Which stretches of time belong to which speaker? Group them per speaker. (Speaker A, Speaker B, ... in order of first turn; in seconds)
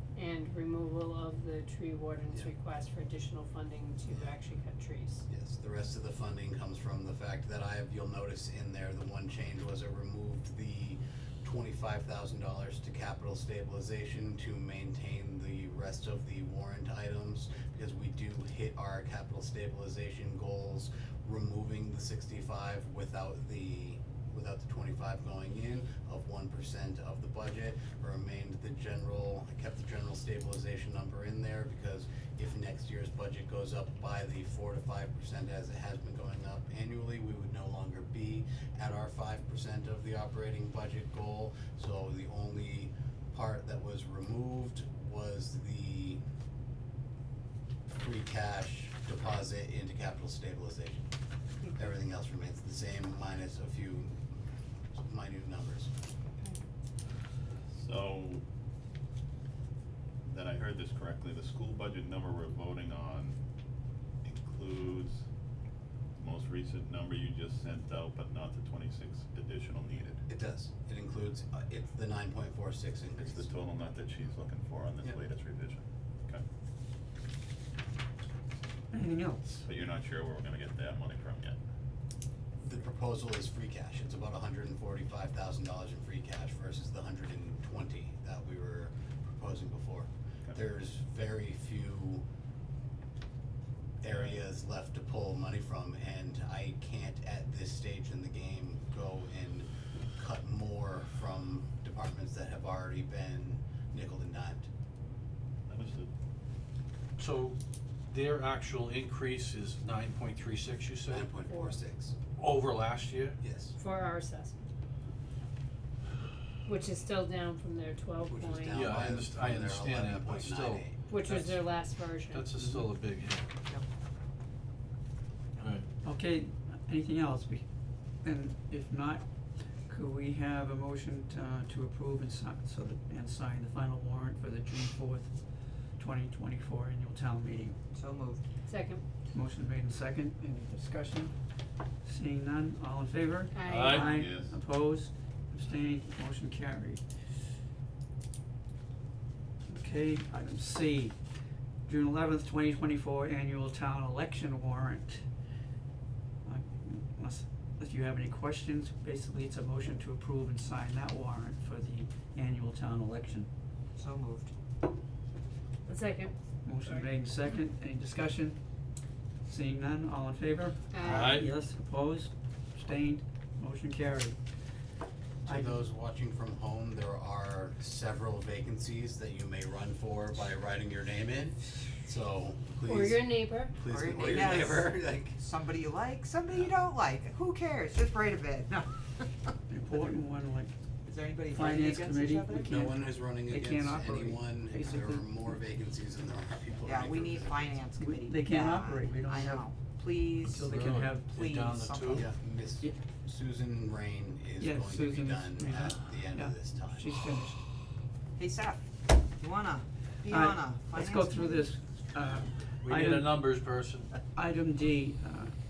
Speaker A: 0.1-5.2, 111.4-111.8, 113.7-114.6, 116.6-118.9, 121.1-122.6, 138.7-139.0, 143.5-144.2, 165.9-167.1, 170.9-171.4, 182.8-183.8
Speaker B: 4.0-4.4, 5.3-46.2, 47.9-51.0, 51.7-54.1, 55.0-55.9, 70.3-73.5, 82.6-92.2, 94.0-104.7, 111.1-112.1, 113.4-113.8, 118.3-121.0, 175.4-185.4, 192.6-197.6, 202.1-207.1
Speaker C: 57.7-58.4, 60.2-63.4, 64.2-65.2, 66.2-70.2, 73.2-76.4, 79.6-81.6, 94.1-94.4, 105.7-106.1, 144.0-144.6
Speaker D: 78.9-79.5, 122.6-122.9, 126.0-127.7, 128.2-137.8, 139.3-141.3, 142.0-147.0, 149.7-151.2, 151.8-155.2, 156.4-163.5, 166.6-168.6, 169.4-174.4, 175.4-175.8, 189.7-190.7, 191.5-195.6, 198.0-199.7, 200.4-201.3, 204.6-207.6, 210.3-213.4, 214.3-215.5
Speaker E: 107.2-107.6, 108.1-111.4, 112.4-113.4, 118.7-123.5, 125.6-125.9, 143.6-144.1, 171.0-171.5, 200.6-202.2, 212.8-214.1
Speaker F: 137.9-138.4, 163.9-164.5, 183.9-189.6, 191.0-192.7, 196.8-200.7, 201.2-202.3, 208.4-211.7